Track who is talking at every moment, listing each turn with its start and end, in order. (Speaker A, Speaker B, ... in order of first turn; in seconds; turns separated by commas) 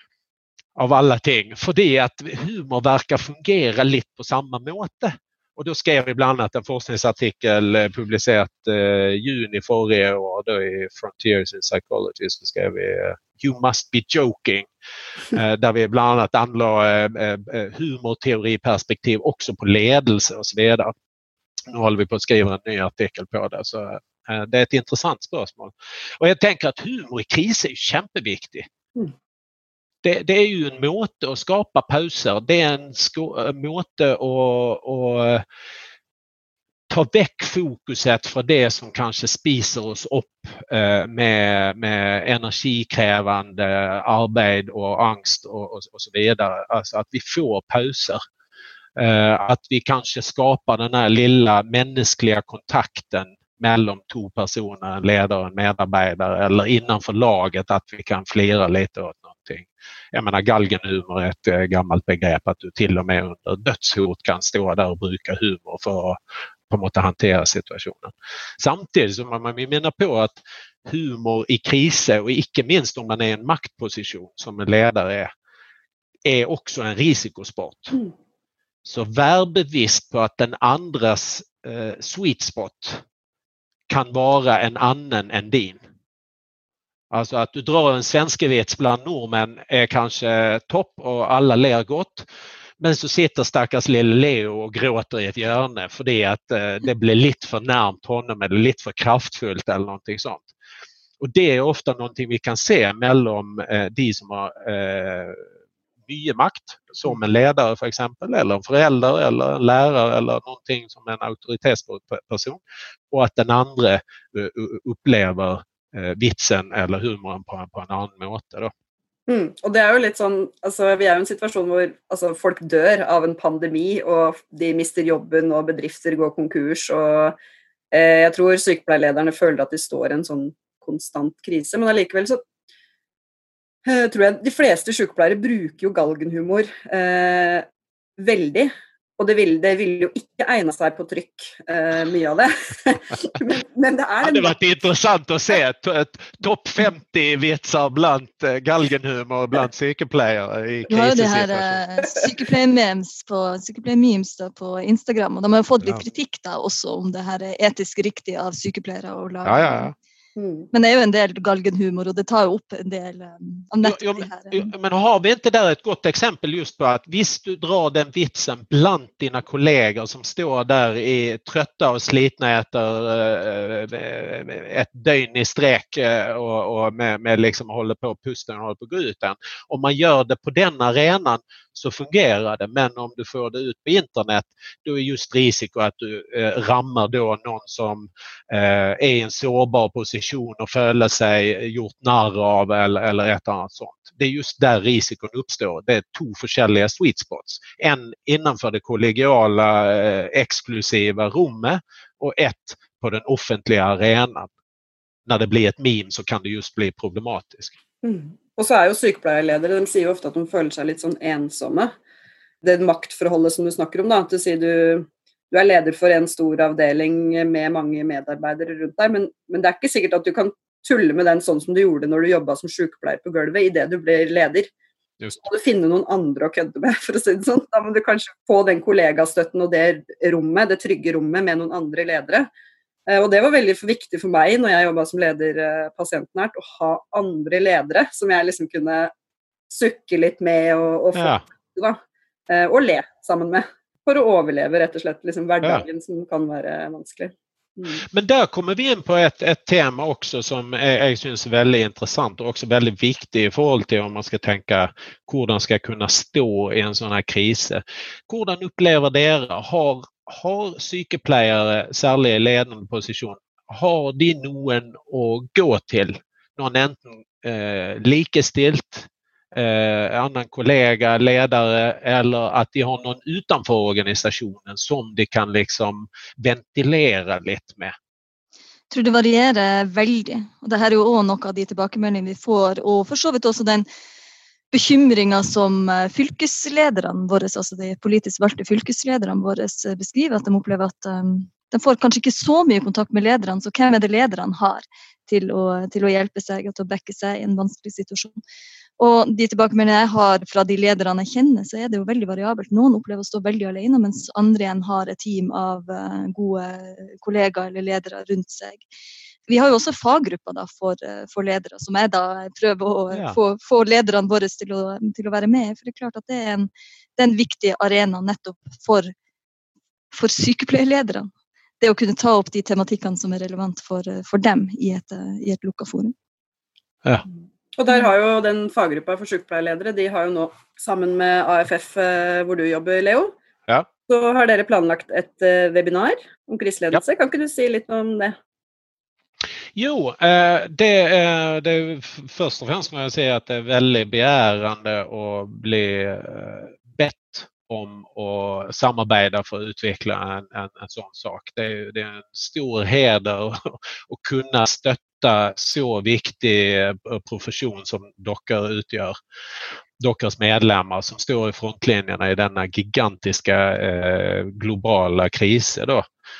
Speaker A: 0.8-14.7, Speaker A: 15.3-20.9, Speaker A: 21.7-28.7, Speaker A: 30.0-35.4, Speaker A: 36.9-48.2, Speaker A: 49.0-66.2, Speaker A: 66.7-75.3, Speaker A: 76.2-78.0, Speaker A: 78.8-83.0, Speaker A: 83.9-85.8, Speaker A: 87.1-92.2, Speaker A: 92.8-100.5, Speaker A: 101.2-105.5, Speaker A: 106.0-118.7, Speaker B: 119.3-127.4, Speaker B: 127.9-132.4, Speaker B: 133.8-137.7, Speaker B: 138.2-144.5, Speaker A: 144.2-151.8, Speaker C: 150.9-159.9, Speaker A: 159.4-159.9, Speaker B: 160.3-160.7, Speaker C: 160.7-164.7, Speaker A: 163.8-204.5, Speaker A: 205.2-207.7, Speaker B: 208.0-211.9, Speaker B: 212.6-224.7, Speaker B: 225.4-232.5, Speaker B: 233.1-239.1, Speaker B: 239.7-248.0, Speaker A: 241.1-241.4, Speaker A: 248.1-277.9, Speaker C: 278.9-283.9, Speaker C: 284.7-298.4, Speaker C: 299.0-308.8, Speaker C: 309.5-319.1, Speaker A: 313.1-313.4, Speaker C: 320.1-326.1, Speaker B: 327.8-333.3, Speaker B: 334.1-338.4, Speaker A: 339.8-359.1, Speaker A: 360.0-366.1